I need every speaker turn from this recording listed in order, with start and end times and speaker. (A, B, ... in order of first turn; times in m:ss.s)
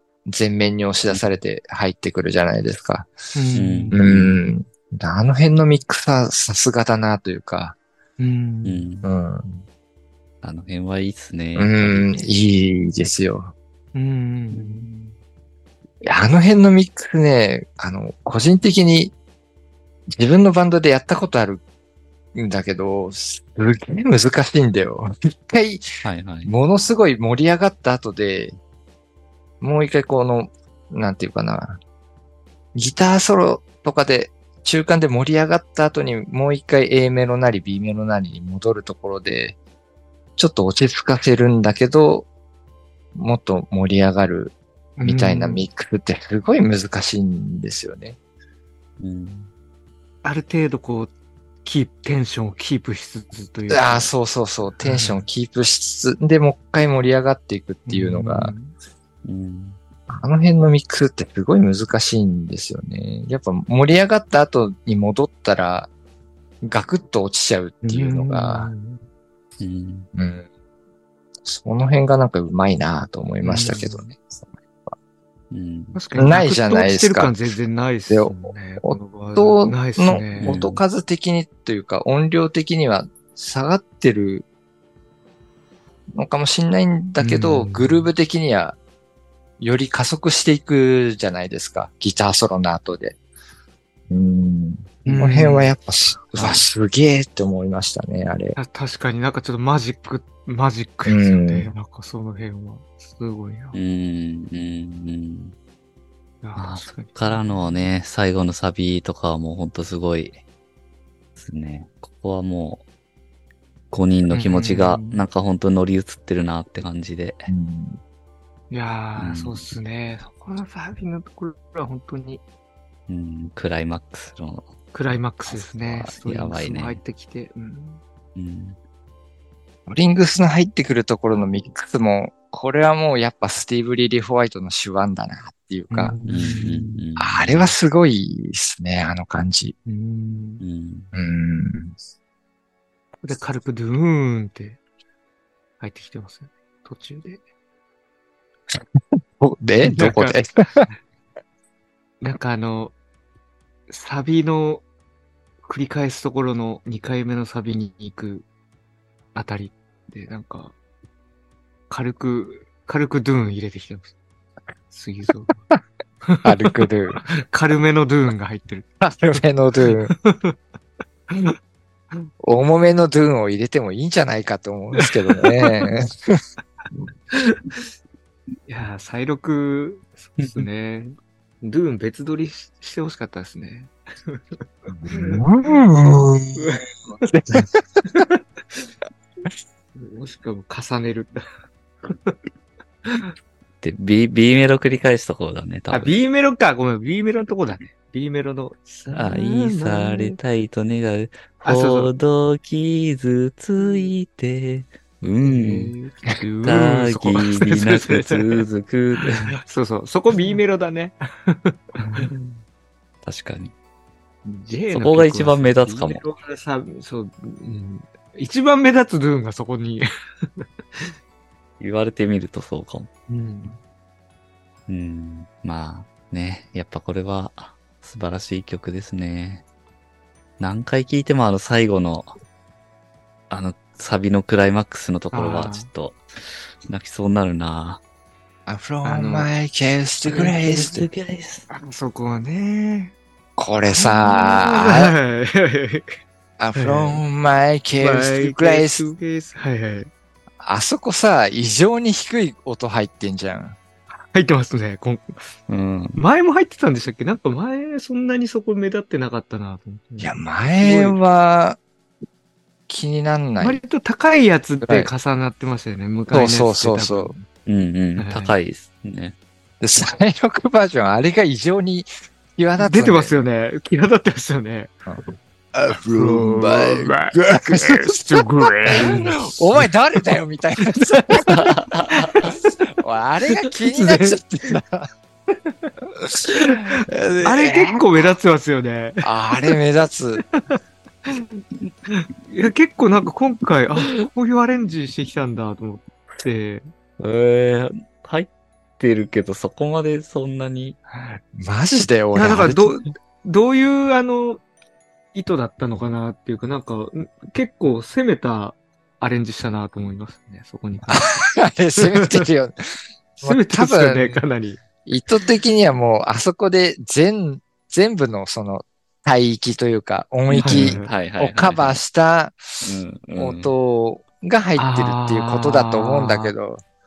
0:00.2-0:03.1 A
0:03.3-0:04.1 B
0:03.5-0:04.4 C
0:03.9-0:07.8 A
0:08.2-0:08.9 B
0:08.6-0:09.1 C
0:09.0-0:09.6 A
0:10.4-0:12.3 C
0:11.6-0:13.5 A
0:13.9-0:15.1 B
0:16.0-0:19.1 A
0:20.1-0:21.6 A
0:22.3-0:25.8 A
0:26.0-0:26.5 C
0:26.4-0:28.6 A
0:29.6-0:31.8 A
0:32.7-0:39.6 A
0:40.4-0:42.3 A
0:43.1-0:48.2 A
0:45.0-0:45.6 B
0:49.0-0:49.5 C
0:50.2-0:51.1 B
0:51.6-0:54.1 B
0:53.7-0:58.5 A
0:54.8-0:55.2 B
0:57.9-0:58.7 B
0:59.2-0:59.8 C
1:00.1-1:05.9 A
1:06.6-1:08.7 A
1:07.8-1:09.0 B
1:09.6-1:10.1 C
1:10.1-1:10.4 A
1:11.4-1:14.9 A
1:13.4-1:14.1 B
1:15.5-1:16.0 C
1:15.9-1:20.6 B
1:16.2-1:17.4 A
1:18.1-1:24.4 A
1:20.4-1:20.8 C
1:26.1-1:28.8 A
1:27.2-1:28.1 B
1:29.6-1:33.2 A
1:34.1-1:38.6 A
1:35.0-1:35.7 B
1:38.6-1:43.8 B
1:41.0-1:41.7 A
1:43.7-1:45.5 C
1:46.4-1:47.7 B
1:46.6-1:50.4 C
1:51.4-1:52.8 C
1:53.9-1:57.5 C
1:54.3-1:55.2 B
1:57.5-1:58.0 A
1:58.7-2:02.4 B
1:59.2-1:59.6 C
2:03.1-2:04.7 C
2:04.9-2:08.0 B
2:05.4-2:07.0 C
2:08.4-2:08.8 C
2:09.8-2:16.2 A
2:15.9-2:17.0 B
2:16.3-2:17.7 C
2:17.2-2:19.7 A
2:19.8-2:20.6 B
2:20.6-2:21.1 C
2:21.1-2:21.9 A
2:23.2-2:24.8 B
2:25.8-2:27.4 B
2:28.7-2:30.9 A
2:29.8-2:30.4 B
2:32.2-2:32.9 B
2:33.9-2:34.8 B
2:35.6-2:38.4 B
2:39.3-2:40.7 B
2:41.9-2:44.1 B
2:44.9-2:45.6 B
2:46.2-2:48.9 B
2:46.4-2:47.2 A
2:49.0-2:50.1 A
2:49.9-2:50.6 B
2:51.3-2:51.6 B
2:52.4-2:56.4 A
2:55.0-2:55.9 B
2:57.3-2:57.8 B
2:58.7-3:05.8 B
3:00.4-3:00.6 C
3:04.9-3:06.7 A
3:06.5-3:07.3 B
3:07.3-3:08.2 A
3:08.0-3:08.9 B
3:09.9-3:11.4 B
3:12.0-3:12.4 B
3:13.0-3:13.3 B
3:13.8-3:16.2 C
3:15.9-3:20.4 B
3:19.1-3:25.9 C
3:21.6-3:22.1 B
3:23.8-3:24.1 B
3:25.4-3:28.6 B
3:26.6-3:29.5 C
3:29.2-3:32.5 B
3:33.2-3:33.7 C
3:34.4-3:41.1 B
3:34.9-3:36.2 C
3:41.8-3:43.1 C
3:43.3-3:43.8 B
3:44.9-3:49.6 C
3:50.6-3:52.3 C
3:53.5-3:56.2 C
3:55.3-3:55.9 B
3:56.9-3:58.0 C
3:58.6-4:01.1 A
3:59.0-3:59.5 B
4:00.2-4:00.8 B
4:00.7-4:01.7 C
4:01.7-4:03.1 B
4:03.6-4:05.1 A
4:04.0-4:06.1 B
4:06.6-4:09.1 A
4:06.8-4:07.2 B
4:08.0-4:10.1 B
4:10.6-4:13.8 A
4:14.3-4:15.4 B
4:15.7-4:16.2 C
4:16.2-4:21.2 B
4:20.2-4:21.8 A
4:22.9-4:23.8 A
4:23.6-4:27.4 B
4:24.8-4:25.1 A
4:26.3-4:27.3 A
4:27.6-4:29.4 C
4:28.2-4:28.5 B
4:29.8-4:33.4 A
4:32.8-4:34.9 B
4:35.7-4:41.6 A
4:36.1-4:39.9 B
4:40.9-4:41.5 B
4:41.5-4:42.5 C
4:42.1-4:42.6 B
4:43.0-4:45.1 A
4:43.8-4:44.8 B
4:45.6-4:45.9 B
4:46.2-4:48.3 A
4:46.5-4:49.8 B
4:49.2-4:50.4 A
4:50.4-4:56.9 B
4:57.2-5:01.0 C
5:01.5-5:03.0 A
5:02.3-5:04.6 B
5:05.3-5:11.3 B
5:11.1-5:14.4 A
5:12.0-5:12.4 B
5:13.4-5:14.8 B
5:15.0-5:26.8 A
5:20.5-5:22.0 C
5:20.6-5:21.1 B
5:22.8-5:23.7 C
5:24.8-5:26.5 B